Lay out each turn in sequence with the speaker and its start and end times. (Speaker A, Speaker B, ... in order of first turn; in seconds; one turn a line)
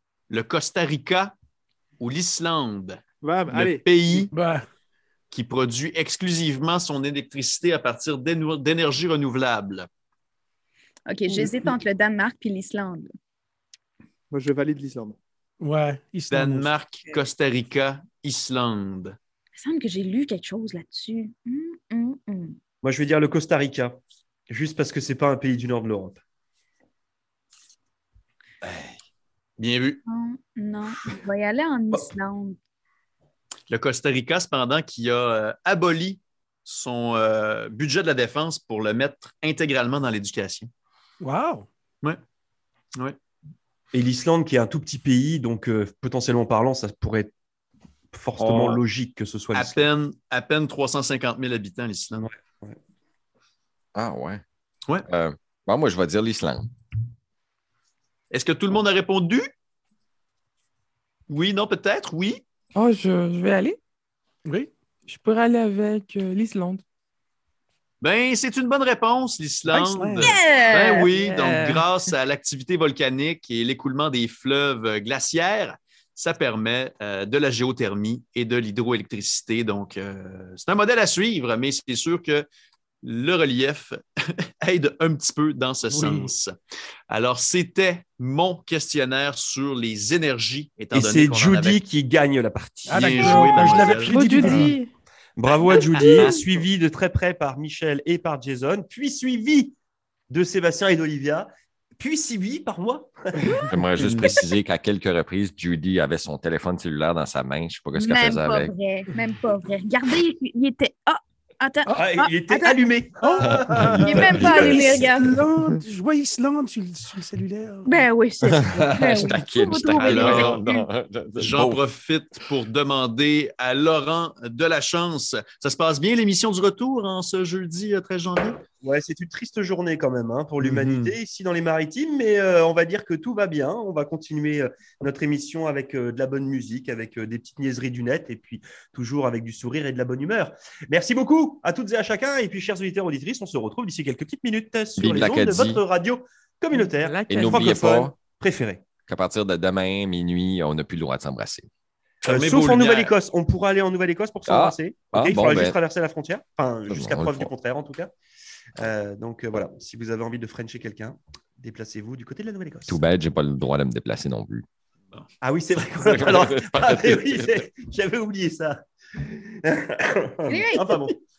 Speaker A: 0.3-1.3
Speaker A: 2.0-4.3
Speaker B: 3.2-4.2
Speaker C: 4.3-4.6
Speaker A: 5.3-9.9
Speaker D: 11.1-13.1
Speaker B: 11.3-11.7
Speaker B: 14.3-15.2
Speaker C: 15.6-16.7
Speaker A: 16.3-19.2
Speaker D: 19.6-22.6
Speaker E: 22.8-24.0
Speaker E: 24.5-26.2
Speaker A: 28.6-28.9
Speaker A: 29.6-30.0
Speaker D: 30.1-32.6
Speaker A: 33.7-40.7
Speaker C: 41.2-41.7
Speaker E: 43.9-47.3
Speaker E: 48.1-49.9
Speaker A: 48.4-48.8
Speaker A: 49.5-52.3
Speaker E: 52.2-52.8
Speaker F: 53.9-54.4
Speaker F: 55.1-56.7
Speaker A: 58.3-59.5
Speaker A: 61.3-62.4
Speaker G: 62.7-63.8
Speaker C: 64.4-64.7
Speaker G: 65.1-66.8
Speaker A: 68.0-82.5
Speaker C: 69.7-70.4
Speaker D: 70.2-71.1
Speaker G: 71.1-71.9
Speaker A: 83.0-84.0
Speaker A: 84.6-86.5
Speaker C: 85.9-86.3
Speaker A: 87.1-91.8
Speaker E: 90.9-93.8
Speaker C: 92.8-94.8
Speaker A: 92.9-94.2
Speaker G: 94.0-94.9
Speaker E: 95.3-99.7
Speaker G: 95.9-96.4
Speaker E: 100.3-103.5
Speaker F: 103.7-108.7
Speaker A: 104.0-104.3
Speaker D: 107.9-113.0
Speaker E: 111.9-114.7
Speaker C: 113.2-118.1
Speaker F: 113.4-115.2
Speaker D: 114.0-115.4
Speaker D: 117.8-120.9
Speaker F: 118.4-121.8
Speaker A: 119.9-120.6
Speaker A: 121.4-128.6
Speaker E: 128.8-148.8
Speaker A: 130.6-131.1
Speaker F: 145.0-145.8
Speaker G: 146.7-147.8
Speaker F: 147.3-148.1
Speaker F: 149.1-151.7
Speaker A: 152.2-153.1
Speaker E: 152.2-158.1
Speaker F: 154.5-155.8
Speaker F: 156.9-157.5
Speaker E: 158.8-163.0
Speaker F: 162.9-164.6
Speaker E: 165.4-171.1
Speaker F: 166.0-167.6
Speaker D: 170.4-171.1